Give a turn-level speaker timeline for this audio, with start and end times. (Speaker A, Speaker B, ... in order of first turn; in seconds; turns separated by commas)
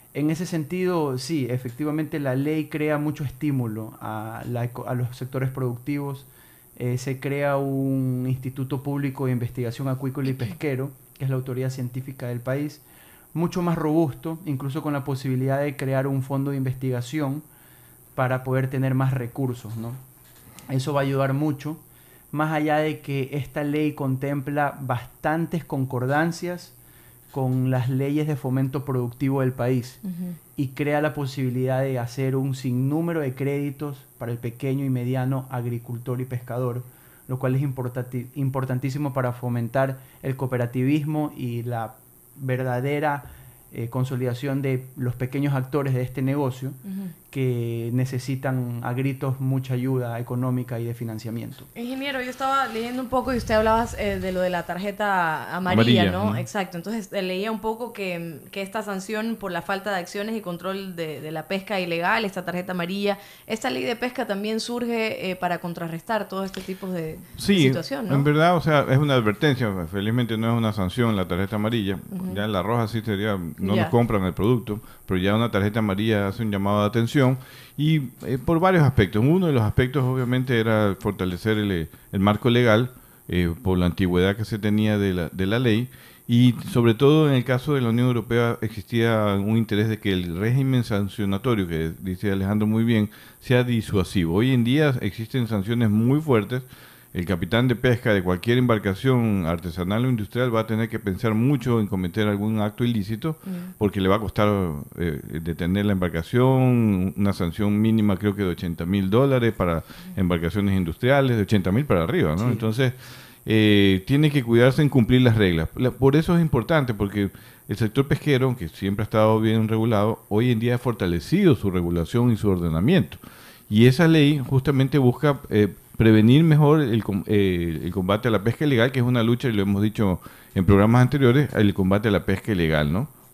Speaker A: 0.1-17.4, Speaker A: 18.1-20.0, Speaker A: 20.7-21.8, Speaker A: 22.3-26.8, Speaker A: 27.3-30.0, Speaker B: 30.1-30.4, Speaker A: 30.6-51.7, Speaker B: 46.9-47.1, Speaker B: 51.8-68.3, Speaker C: 55.7-56.5, Speaker C: 67.4-133.1, Speaker B: 72.1-72.4, Speaker B: 73.6-73.9, Speaker B: 103.5-103.7